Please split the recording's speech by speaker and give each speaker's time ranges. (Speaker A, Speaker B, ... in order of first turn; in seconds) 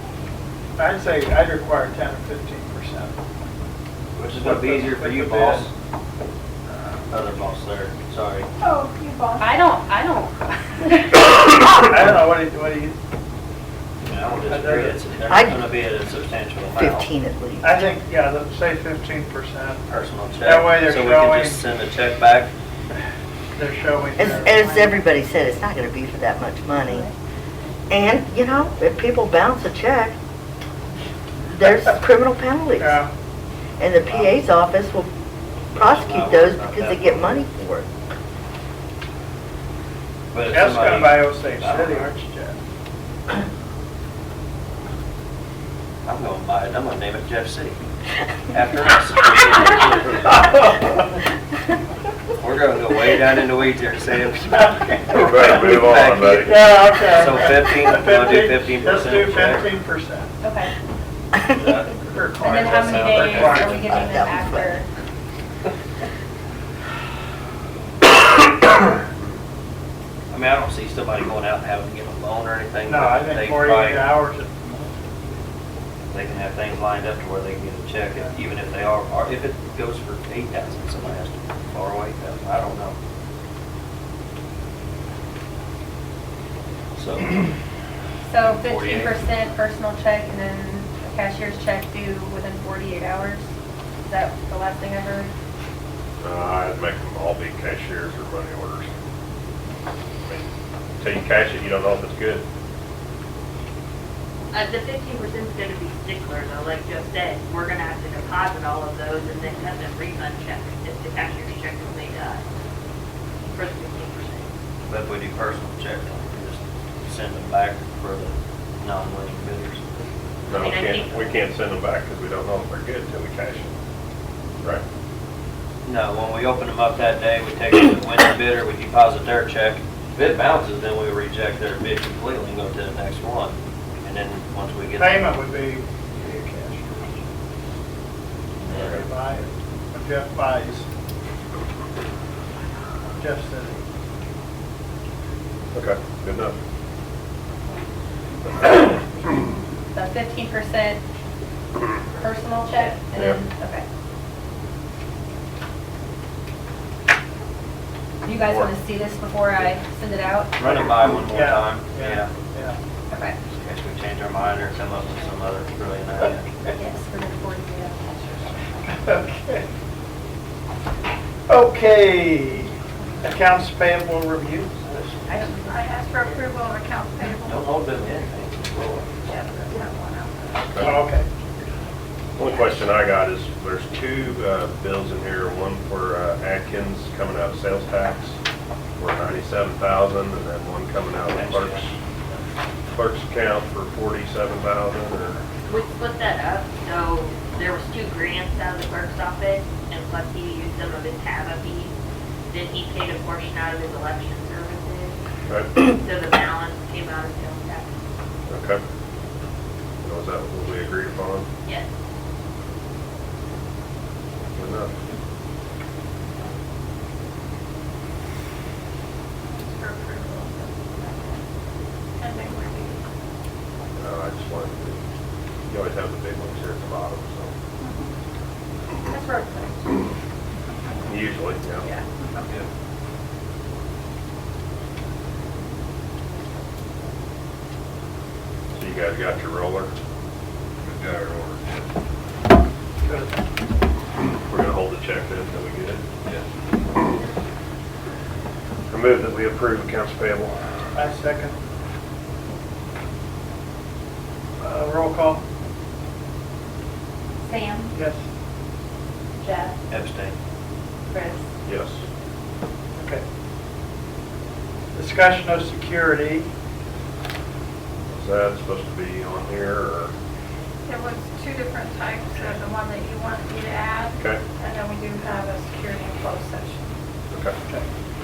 Speaker A: 0.8-3.2, 4.4-5.7, 11.8-13.0, 14.5-15.0, 17.6-19.9, 20.4-21.6, 23.6-24.6, 32.8-33.1, 40.5-42.6, 54.5-55.2, 56.1-60.4, 62.0-63.8, 72.9-75.0, 135.0-137.2, 138.9-140.9, 143.1-143.8, 161.3-162.8, 168.9-169.7, 171.5-174.8, 180.8-181.3, 243.0-243.4, 250.9-251.6, 254.6-255.4, 257.9-258.2, 263.0-263.2, 264.9-266.5
Speaker B: 4.2-5.7, 7.1-8.5, 14.0-17.1, 19.9-22.5, 34.1-34.4, 35.7-37.5, 40.3-42.1, 46.0-47.8, 48.5-50.4, 52.4-59.7, 61.5-63.8, 70.3-74.1, 76.1-83.0, 87.0-87.5, 88.4-89.2, 114.9-119.9, 125.8-135.2, 138.6-139.0, 160.6-162.3, 163.5-166.5, 174.8-175.5, 177.4-179.1, 191.3-192.4, 259.9-260.4
Speaker C: 8.6-9.5, 175.6-178.3, 179.2-180.7, 219.5-221.4, 222.2-223.0, 227.8-228.1, 229.2-229.8, 270.9-276.9
Speaker D: 9.4-11.2, 60.4-60.7, 62.4-64.9, 88.3-93.5, 94.1-95.3, 149.9-151.0, 152.2-153.8, 158.2-160.5, 163.1-163.3, 166.7-168.8, 229.1-229.5, 257.5-257.9, 261.1-261.4
Speaker E: 15.3-15.7, 16.7-17.8, 24.2-27.1, 27.9-30.1, 31.5-33.0, 33.8-35.1, 35.7-37.9, 63.4-64.8
Speaker F: 55.2-56.6, 96.2-98.9, 101.0-102.5, 120.5-123.7, 138.7-139.0, 145.7-146.5, 153.1-153.4, 182.4-188.4, 189.0-191.9, 192.9-195.4, 208.5-208.8, 210.0-211.5, 214.6-214.9, 223.9-225.0, 225.7-227.5, 231.0-231.9, 238.8-239.9, 240.8-241.8, 244.5-246.4, 248.9-250.6, 261.6-262.0, 268.1-270.1, 274.2-274.4, 277.3-277.6
Speaker G: 104.5-112.4, 113.5-114.5, 120.5-121.4, 152.6-152.9, 175.3-176.5, 195.7-201.9, 202.5-205.2, 205.8-207.9